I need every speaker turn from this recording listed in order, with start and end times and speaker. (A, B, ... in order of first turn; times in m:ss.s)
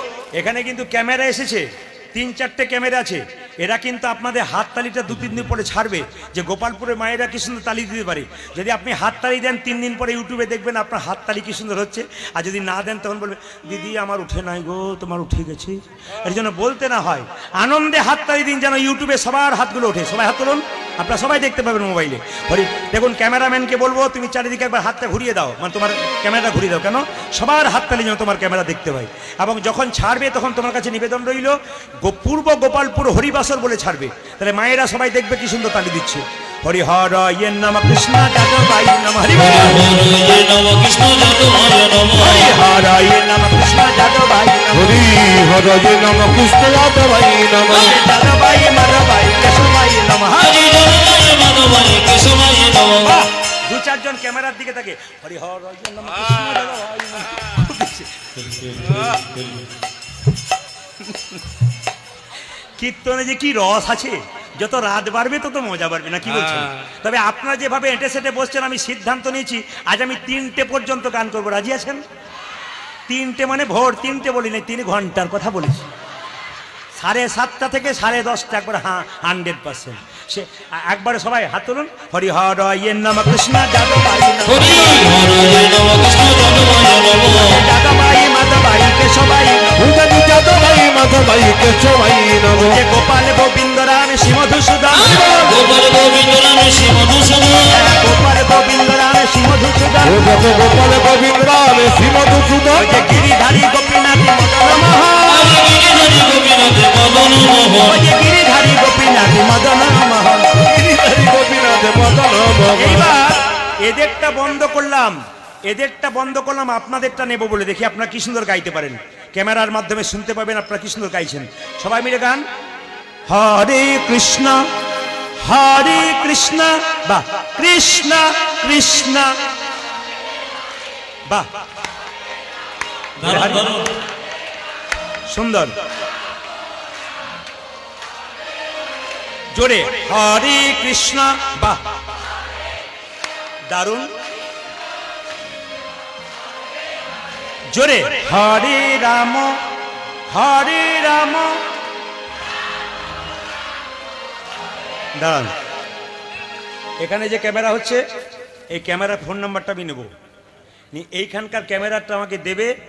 0:00.3-0:39.9 A
0:39.3-0:42.5 B
0:42.2-0:45.1 A
0:44.7-0:48.0 C
0:47.7-0:50.6 A
0:50.4-0:53.2 B
0:53.0-0:58.4 A
0:58.4-0:59.6 C
1:01.1-1:01.4 A
1:02.8-1:12.0 A
1:13.1-1:15.9 A
1:17.0-1:25.1 A
1:24.4-1:27.6 B
1:27.3-1:29.9 A
1:29.8-1:32.8 C
1:32.5-1:35.4 A
1:34.9-1:37.9 B
1:37.7-1:40.4 A
1:40.0-1:43.2 C
1:42.8-1:45.6 A
1:45.2-1:48.0 B
1:47.8-1:50.7 A
1:50.6-1:53.2 C
1:52.8-2:02.4 A
2:03.3-2:04.7 A
2:05.4-2:09.4 A
2:11.3-2:11.5 A
2:13.2-2:13.9 B
2:13.2-2:13.7 A
2:15.3-2:15.7 A
2:19.5-2:21.8 A
2:23.7-2:24.1 A
2:27.7-2:29.6 A
2:30.3-2:31.6 A
2:35.2-2:35.5 A
2:37.0-2:38.1 A
2:38.7-2:40.1 A
2:40.9-2:42.7 A